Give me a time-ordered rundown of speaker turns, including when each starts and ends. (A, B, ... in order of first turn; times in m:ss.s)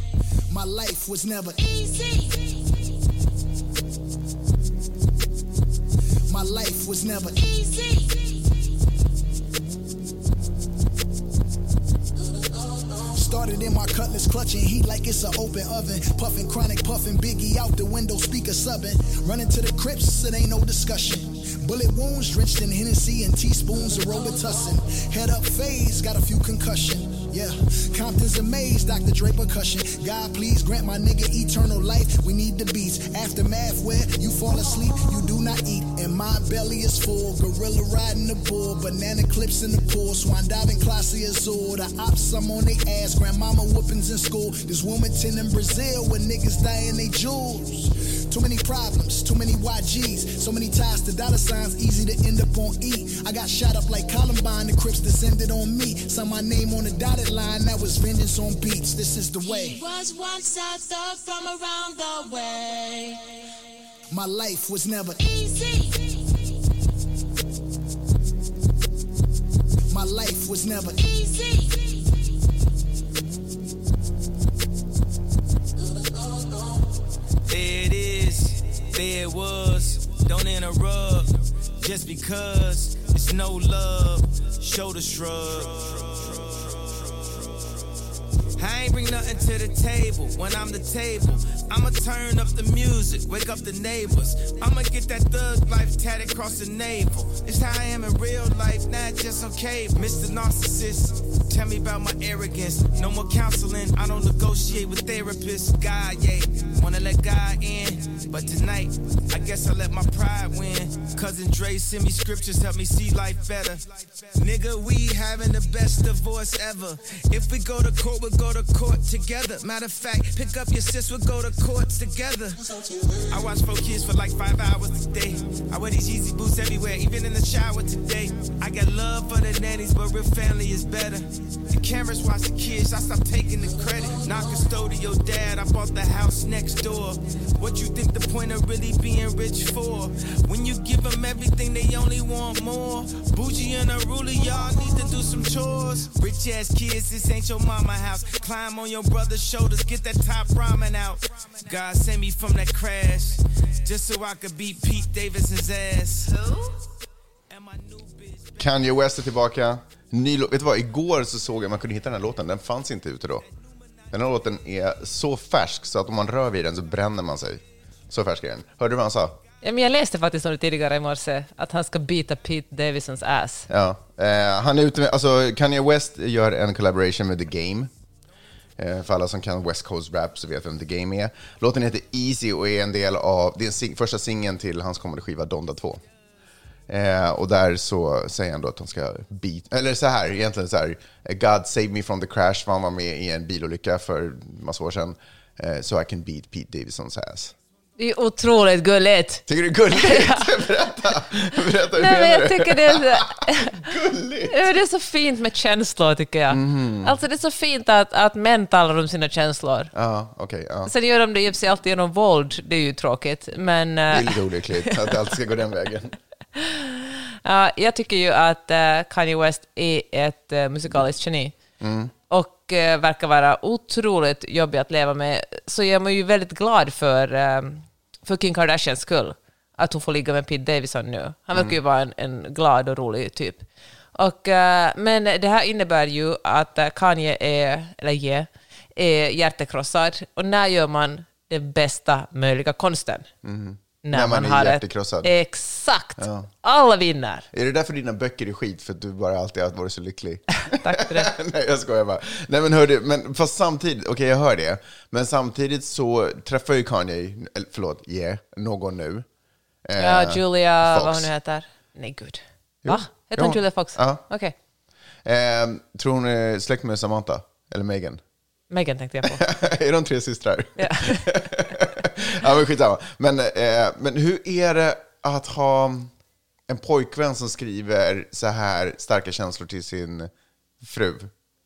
0:00.5-0:01.6 A
0:01.6-0:03.0 B
0:06.3-0:07.4 A
0:07.4-0:08.8 B
0:13.0-0:59.8 A
0:59.4-1:03.2 B
1:04.1-1:05.2 A
1:05.2-1:06.6 B
1:09.9-1:11.0 A
1:11.0-1:12.3 B
1:17.5-1:27.1 C
1:28.6-2:02.6 C
2:03.3-2:36.4 C
2:37.5-2:38.6 C
2:38.6-2:43.4 D
2:44.1-2:49.4 D
2:49.6-2:53.7 E
2:53.7-2:57.9 D
2:58.8-3:06.0 D
3:06.9-3:17.5 D
3:18.0-3:20.5 E
3:19.5-3:24.7 D
3:21.9-3:23.9 E
3:24.5-3:29.9 E
3:26.5-3:27.2 D
3:29.9-3:30.9 D
3:30.9-3:35.1 E
3:34.1-3:36.2 D
3:36.6-3:41.6 E
3:41.8-3:42.1 D
3:42.3-4:03.3 E
4:03.4-4:05.3 D
4:04.0-4:07.5 E
4:06.2-4:06.5 D
4:07.5-4:19.3 D
4:10.6-4:11.4 E
4:19.8-4:21.3 D
4:20.0-4:24.5 E
4:22.8-4:24.2 D
4:25.2-4:28.2 D
4:28.7-4:29.4 E
4:29.3-4:36.1 D
4:30.8-4:31.4 E
4:36.7-4:41.3 D